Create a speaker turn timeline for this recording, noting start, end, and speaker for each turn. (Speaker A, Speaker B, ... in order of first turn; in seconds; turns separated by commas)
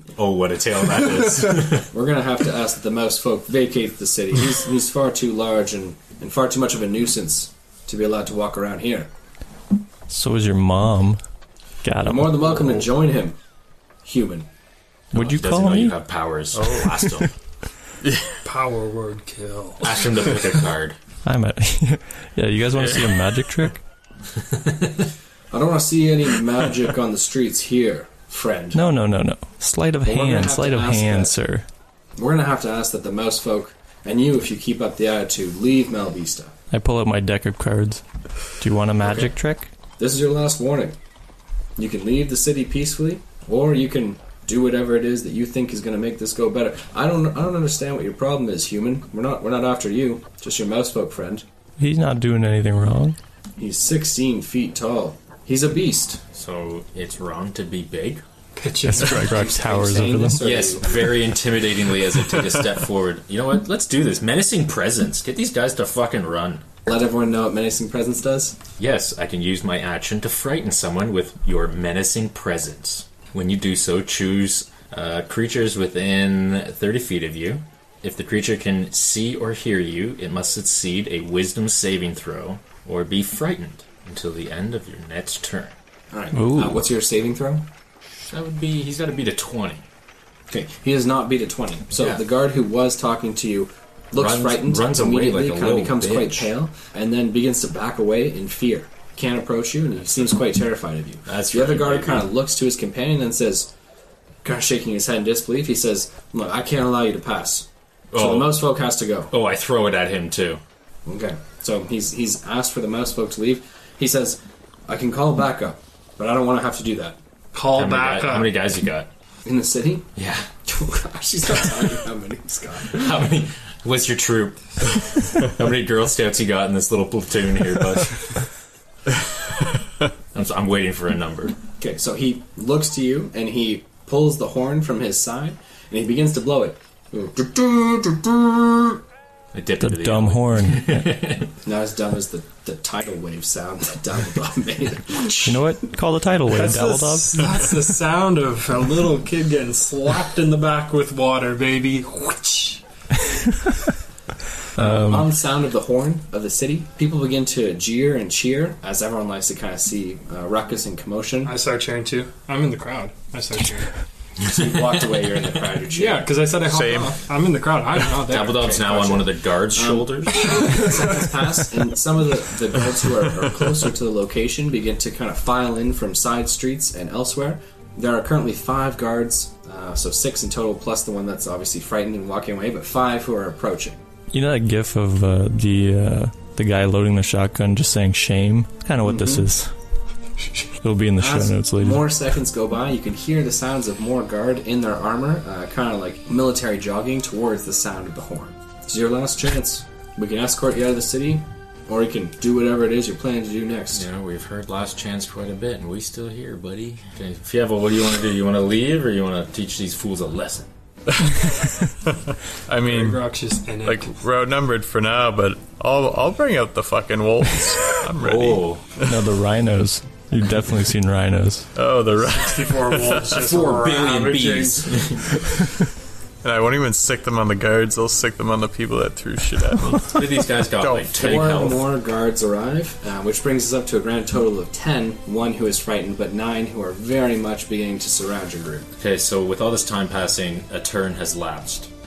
Speaker A: 0.2-1.9, Speaker B: 1.7-9.1, Speaker C: 10.1-11.2, Speaker C: 11.8-12.8, Speaker B: 12.0-13.3, Speaker B: 14.0-14.5, Speaker C: 15.1-16.0, Speaker A: 15.1-17.3, Speaker D: 16.6-16.9, Speaker C: 17.0-17.3, Speaker D: 18.0-18.4, Speaker E: 18.4-19.9, Speaker A: 19.8-21.0, Speaker C: 21.2-23.8, Speaker A: 24.4-25.1, Speaker B: 25.5-28.8, Speaker C: 28.7-31.6, Speaker B: 30.0-31.3, Speaker B: 32.2-36.5, Speaker C: 36.7-38.0, Speaker C: 38.6-39.7, Speaker B: 39.0-39.3, Speaker B: 40.0-41.0, Speaker B: 41.8-51.4, Speaker C: 51.8-53.2, Speaker B: 53.6-56.2, Speaker A: 56.3-58.2, Speaker E: 58.5-59.7, Speaker C: 58.9-60.4, Speaker B: 59.1-61.2, Speaker A: 60.4-66.6, Speaker B: 66.8-68.6, Speaker A: 68.8-85.7, Speaker B: 86.1-87.6, Speaker C: 86.3-86.8, Speaker A: 88.2-89.8, Speaker B: 90.5-103.7, Speaker A: 91.9-92.2, Speaker A: 94.1-96.5, Speaker A: 101.2-102.3, Speaker B: 104.4-109.3, Speaker A: 108.1-108.6, Speaker A: 109.3-110.6, Speaker B: 111.0-117.2, Speaker E: 117.5-118.6, Speaker A: 117.7-119.1, Speaker B: 119.4-120.1, Speaker A: 120.2-120.5, Speaker B: 120.6-123.3, Speaker A: 122.8-128.5, Speaker A: 130.3-131.6, Speaker B: 131.8-139.0, Speaker A: 139.5-141.5, Speaker C: 139.8-141.1, Speaker B: 141.6-145.7, Speaker C: 145.4-147.4, Speaker E: 146.5-152.8, Speaker C: 154.8-155.2, Speaker B: 154.8-161.6, Speaker E: 161.4-163.9, Speaker B: 164.4-166.3, Speaker E: 165.9-168.7, Speaker D: 166.6-167.2, Speaker A: 168.2-171.2, Speaker B: 168.3-184.0, Speaker C: 184.3-189.7, Speaker B: 189.0-189.5, Speaker C: 190.8-192.1, Speaker B: 191.2-204.1, Speaker A: 203.9-210.7, Speaker D: 212.7-213.2, Speaker E: 212.8-214.1, Speaker D: 213.8-219.1, Speaker A: 218.1-218.8, Speaker C: 219.0-221.7, Speaker D: 221.8-223.4, Speaker E: 222.2-225.3, Speaker A: 223.3-225.6, Speaker D: 226.4-231.1, Speaker A: 230.1-231.9, Speaker B: 231.2-238.9, Speaker A: 239.0-241.9